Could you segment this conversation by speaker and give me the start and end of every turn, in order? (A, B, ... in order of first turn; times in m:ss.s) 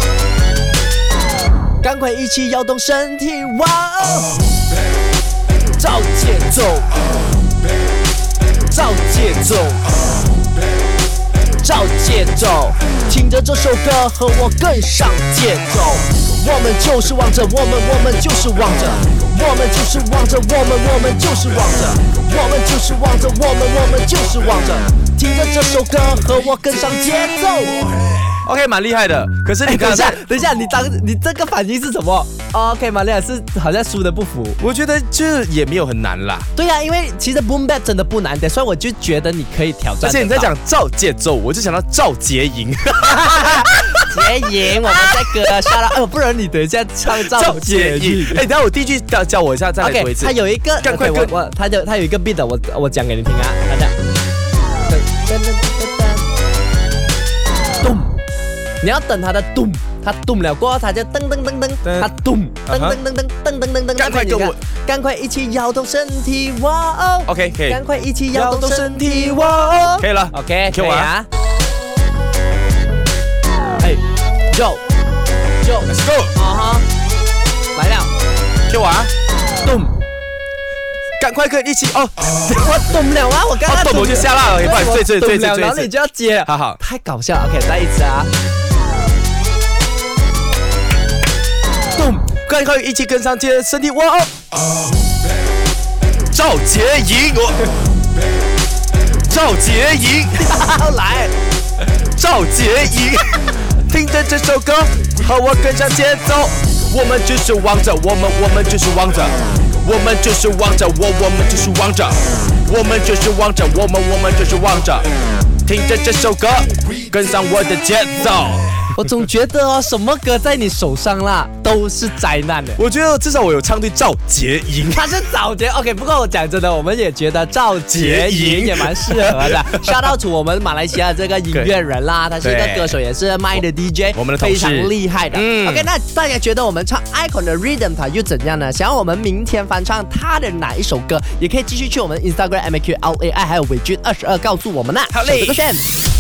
0:01.8-0:04.4 A
0:05.8-0:06.9 A
0:08.7-0:09.9 A
0:11.6-0:27.8 A
0:28.4-0:30.2 B
0:29.6-0:34.6 A
0:34.6-0:36.5 B
0:36.6-0:40.5 A
0:40.0-0:44.1 B
0:43.1-0:48.4 A
0:47.1-0:51.4 B
0:49.8-0:54.0 A
0:54.9-0:56.3 A
0:57.8-0:58.1 A
0:58.8-1:11.3 A
1:01.8-1:02.1 B
1:02.7-1:03.0 B
1:04.0-1:04.6 B
1:07.3-1:07.8 B
1:08.3-1:11.1 B
1:14.5-1:14.8 A
1:15.6-1:16.8 A
1:15.9-1:16.3 B
1:17.8-1:18.1 A
1:18.7-1:19.1 B
1:19.6-1:19.9 A
1:21.2-1:22.3 B
1:22.4-1:28.3 A
1:23.7-1:25.9 B
1:26.5-1:26.8 B
1:32.0-1:32.3 A
1:32.4-1:34.3 B
1:36.3-1:37.6 B
1:39.3-1:40.5 B
1:40.4-1:41.3 A
1:42.2-1:55.1 B
1:55.7-1:58.9 B
1:59.0-2:02.8 A
2:02.8-2:05.1 B
2:04.9-2:25.8 A
2:07.9-2:10.0 B
2:12.4-2:13.0 B
2:14.2-2:15.9 B
2:25.1-2:25.6 B